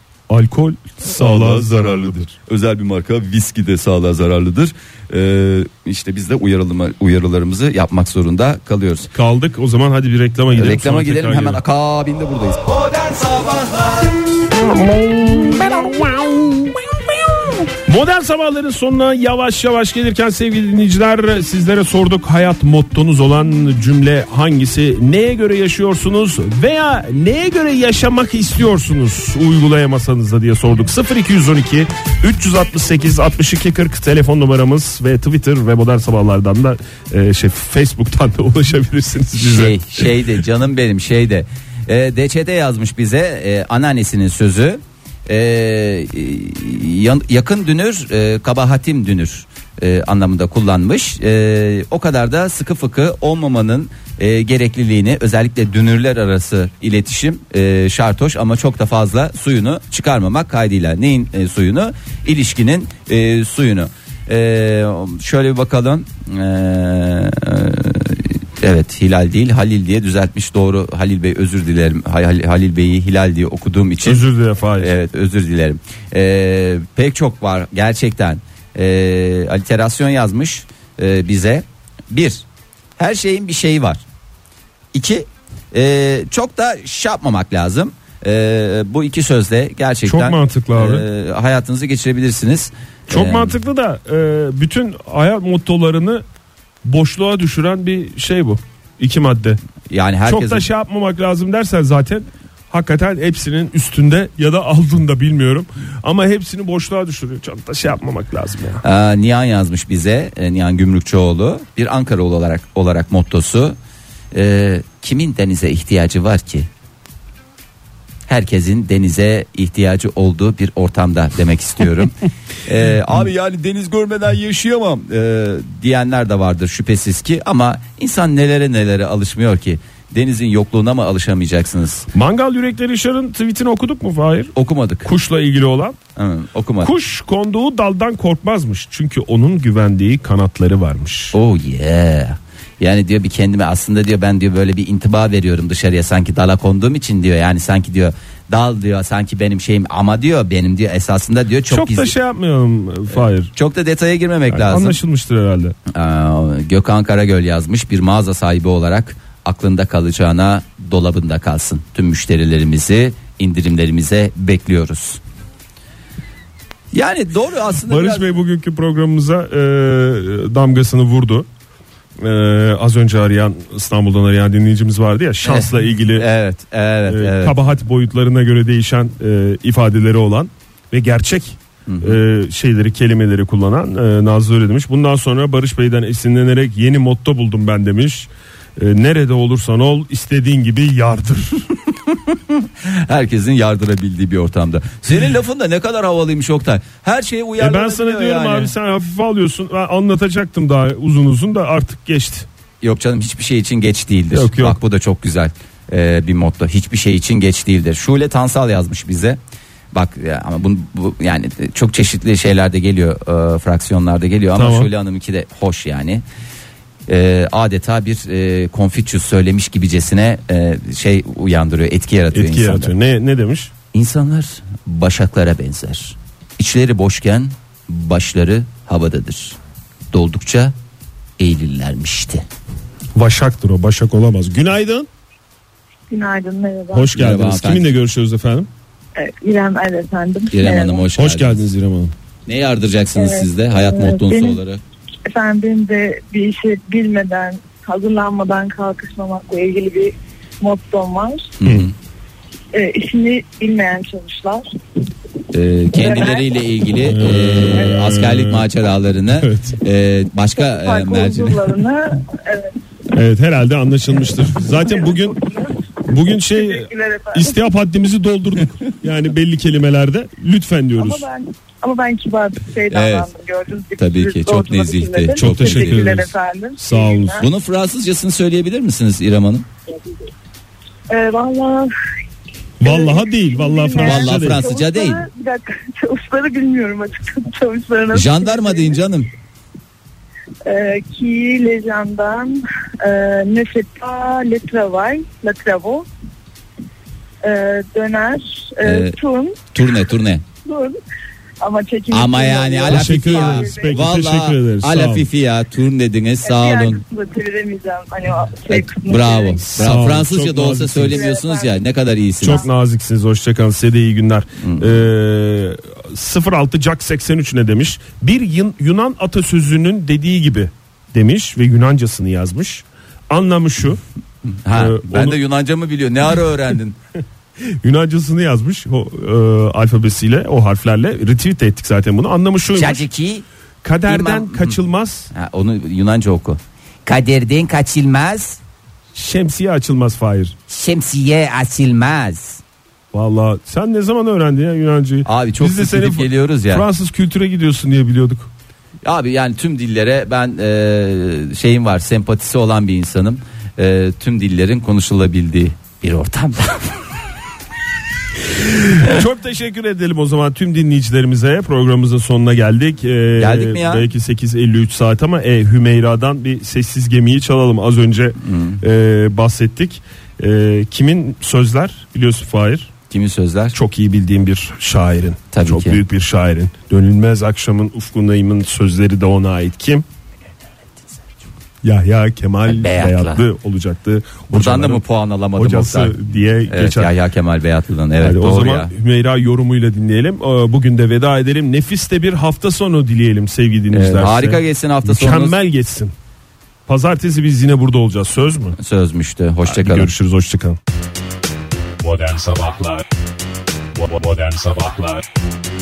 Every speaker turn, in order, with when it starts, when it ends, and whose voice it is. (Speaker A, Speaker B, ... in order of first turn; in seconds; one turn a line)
Speaker A: 0.3-2.3
Speaker B: 1.0-9.1
Speaker A: 9.1-11.6
Speaker B: 10.5-14.0
Speaker A: 14.7-16.7
Speaker A: 17.8-40.1
Speaker B: 39.3-74.2
Speaker A: 74.0-74.9
Speaker B: 74.8-82.5
Speaker B: 83.0-84.0
Speaker B: 84.9-93.5
Speaker A: 90.0-91.0
Speaker A: 93.1-96.2
Speaker A: 96.8-99.6
Speaker B: 99.9-100.7
Speaker A: 100.3-108.8
Speaker B: 108.8-113.8
Speaker B: 114.3-116.7
Speaker B: 118.3-132.1
Speaker A: 132.1-135.9
Speaker B: 134.5-135.1
Speaker B: 136.2-136.9
Speaker A: 136.8-141.4
Speaker B: 141.3-152.1
Speaker A: 151.7-153.5
Speaker B: 153.1-155.0
Speaker A: 154.5-155.7
Speaker B: 155.9-165.2
Speaker B: 166.9-168.3
Speaker A: 167.9-171.4
Speaker A: 172.2-176.2
Speaker B: 175.4-177.6
Speaker A: 177.1-191.7
Speaker B: 181.8-182.2
Speaker B: 192.3-198.7
Speaker A: 197.6-202.5
Speaker B: 202.8-209.4
Speaker A: 204.3-204.8
Speaker B: 209.9-216.2
Speaker A: 214.5-214.9
Speaker B: 217.1-222.9
Speaker A: 222.3-223.7
Speaker B: 223.9-229.6
Speaker B: 230.1-230.7
Speaker B: 231.4-232.4
Speaker A: 233.1-235.1
Speaker C: 236.1-237.1
Speaker A: 236.9-238.7
Speaker B: 237.1-237.9
Speaker C: 239.2-241.0
Speaker B: 240.5-241.6
Speaker A: 241.2-242.1
Speaker B: 242.4-244.8
Speaker C: 243.2-244.6
Speaker C: 245.3-251.5
Speaker B: 251.6-251.9
Speaker C: 252.7-254.7
Speaker B: 255.5-261.8
Speaker C: 255.9-256.5
Speaker A: 257.0-258.6
Speaker A: 259.3-259.8
Speaker C: 260.6-262.7
Speaker A: 263.1-265.4
Speaker C: 264.8-267.6
Speaker A: 266.0-271.2
Speaker C: 271.0-277.5
Speaker B: 272.9-273.3
Speaker B: 273.9-276.0
Speaker A: 275.4-277.4
Speaker B: 277.4-279.7
Speaker C: 281.1-281.9
Speaker A: 282.8-284.6
Speaker C: 282.8-289.0
Speaker B: 284.0-285.2
Speaker B: 288.1-289.3
Speaker C: 290.6-296.1
Speaker C: 297.4-299.7
Speaker B: 298.8-299.2
Speaker B: 299.7-300.4
Speaker C: 300.6-301.0
Speaker C: 301.6-304.1
Speaker B: 302.1-307.0
Speaker A: 302.9-305.2
Speaker C: 306.4-309.9
Speaker B: 308.7-312.7
Speaker A: 309.8-311.2
Speaker C: 311.0-311.8
Speaker A: 312.4-324.0
Speaker B: 314.6-315.0
Speaker B: 324.5-327.0
Speaker A: 324.7-325.4
Speaker A: 327.8-333.0
Speaker B: 332.7-333.4
Speaker A: 333.8-335.3
Speaker B: 334.1-334.8
Speaker B: 335.3-338.6
Speaker A: 339.1-340.5
Speaker B: 340.7-342.6
Speaker A: 343.1-348.5
Speaker B: 345.2-346.8
Speaker B: 349.0-357.0
Speaker A: 358.6-372.9
Speaker B: 363.4-364.1
Speaker B: 368.4-368.8
Speaker B: 373.1-373.8
Speaker A: 373.7-380.0
Speaker B: 375.5-376.0
Speaker A: 381.8-385.0
Speaker B: 382.6-383.4
Speaker B: 384.5-388.9
Speaker A: 385.6-387.1
Speaker A: 388.2-396.1
Speaker B: 393.9-395.6
Speaker A: 396.9-398.8
Speaker B: 398.8-400.1
Speaker A: 399.6-400.8
Speaker D: 402.1-403.0
Speaker A: 402.1-402.8
Speaker D: 404.1-405.1
Speaker A: 404.2-404.9